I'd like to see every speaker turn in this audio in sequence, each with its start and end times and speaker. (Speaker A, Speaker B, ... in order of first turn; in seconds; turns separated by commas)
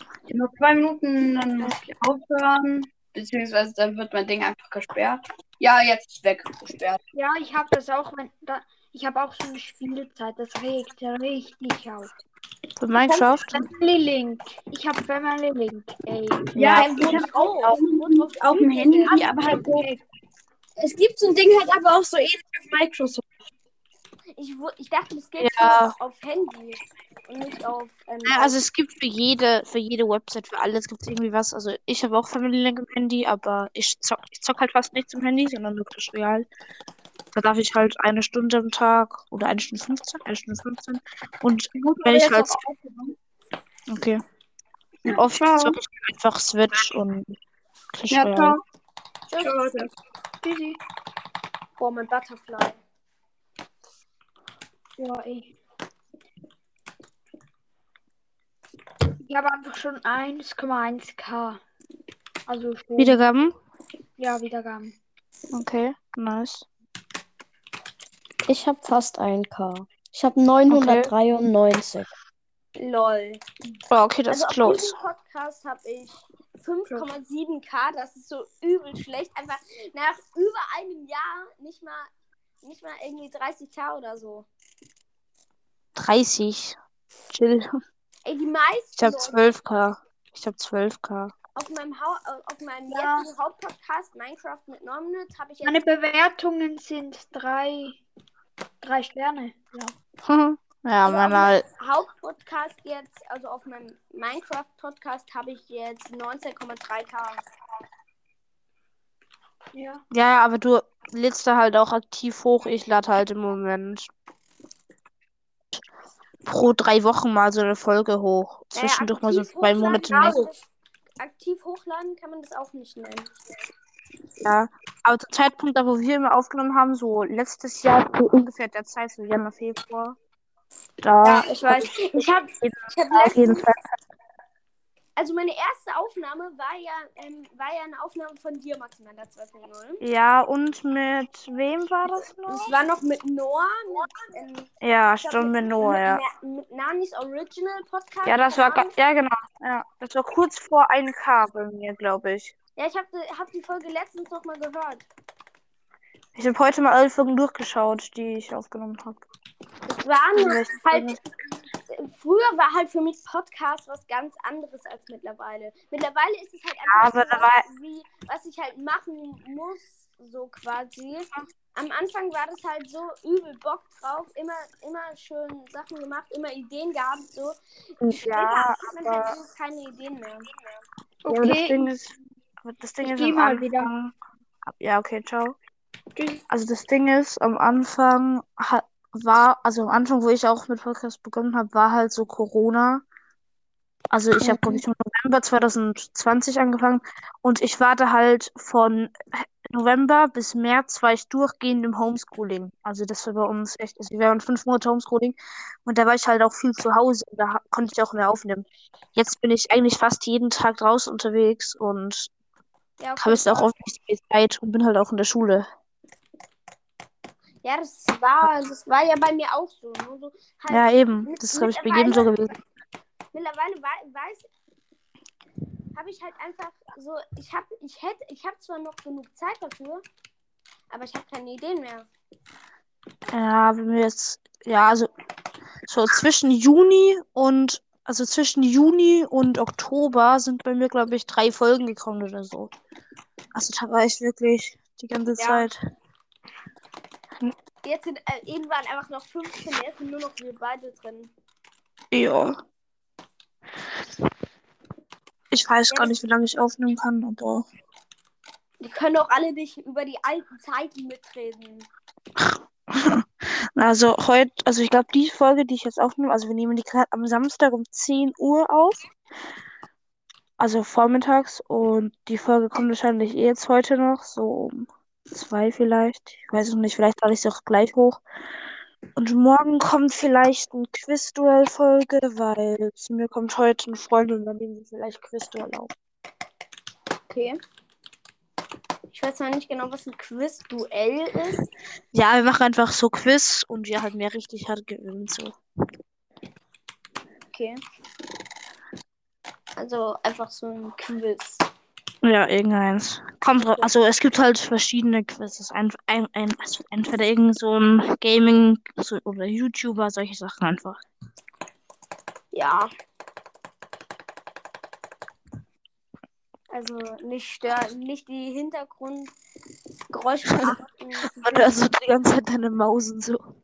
Speaker A: 0.3-7.0, Speaker B: 7.1-12.1, Speaker C: 12.8-13.7, Speaker B: 13.0-16.5, Speaker A: 16.5-19.9, Speaker C: 16.6-16.9, Speaker D: 16.7-19.6, Speaker B: 19.1-20.0, Speaker A: 20.8-23.3, Speaker D: 24.4-28.6, Speaker C: 25.4-25.9, Speaker C: 28.2-36.5, Speaker C: 37.3-42.6, Speaker A: 41.7-43.1, Speaker C: 43.9-44.2, Speaker A: 45.0-45.8, Speaker C: 45.1-47.3, Speaker C: 47.9-48.6, Speaker A: 48.1-48.6, Speaker D: 49.3-49.8, Speaker A: 49.4-49.9, Speaker B: 50.4-50.8, Speaker D: 51.8-52.8, Speaker B: 55.0-55.5, Speaker B: 59.2-61.6, Speaker B: 62.5-63.2, Speaker C: 63.0-63.5, Speaker B: 64.2-64.9, Speaker C: 65.5-66.7, Speaker E: 68.4-72.1, Speaker C: 70.7-71.1, Speaker D: 72.8-73.4, Speaker C: 73.9-75.0, Speaker D: 74.3-82.1, Speaker D: 82.6-84.5, Speaker C: 86.0-86.8, Speaker C: 87.3-87.7, Speaker D: 88.2-89.4, Speaker C: 89.0-91.3, Speaker D: 91.5-95.8, Speaker B: 92.9-93.3, Speaker B: 95.6-98.0, Speaker B: 98.8-99.9, Speaker C: 100.2-101.6, Speaker D: 101.0-107.4, Speaker B: 109.7-110.0, Speaker C: 110.1-114.1, Speaker C: 116.4-120.5, Speaker D: 118.7-120.6, Speaker D: 121.2-123.3, Speaker C: 124.4-130.2, Speaker C: 131.0-134.0, Speaker D: 131.2-133.7, Speaker D: 135.2-140.0, Speaker C: 140.0-142.7, Speaker D: 142.5-144.7, Speaker C: 144.8-146.2, Speaker D: 145.2-148.9, Speaker C: 148.2-152.5, Speaker D: 152.8-155.1, Speaker C: 156.3-159.2, Speaker D: 159.9-161.2, Speaker C: 160.3-161.2, Speaker D: 161.9-180.5, Speaker C: 166.9-167.7, Speaker C: 178.0-179.3, Speaker B: 181.2-181.9, Speaker C: 181.3-184.1, Speaker B: 183.0-183.9, Speaker C: 184.6-185.6, Speaker B: 186.2-186.4, Speaker C: 186.5-193.0, Speaker C: 194.1-212.3, Speaker B: 194.4-194.8, Speaker D: 213.0-213.7, Speaker C: 213.2-215.7, Speaker D: 217.6-222.3, Speaker C: 220.7-222.5, Speaker D: 223.3-224.5, Speaker D: 225.9-230.0, Speaker D: 230.9-232.1, Speaker C: 233.3-235.1, Speaker C: 235.9-242.7, Speaker C: 243.5-245.7, Speaker D: 245.4-245.7, Speaker D: 247.8-251.3, Speaker C: 252.1-252.6, Speaker C: 255.5-257.6, Speaker D: 258.8-261.9, Speaker C: 262.4-269.0, Speaker C: 270.6-278.2, Speaker C: 279.1-285.9, Speaker D: 287.3-287.6, Speaker D: 289.1-291.7, Speaker C: 292.1-295.6, Speaker D: 297.5-297.8, Speaker D: 299.8-301.6, Speaker C: 302.2-311.0, Speaker D: 312.5-312.9, Speaker D: 316.7-319.3, Speaker D: 320.1-321.4, Speaker C: 321.2-323.4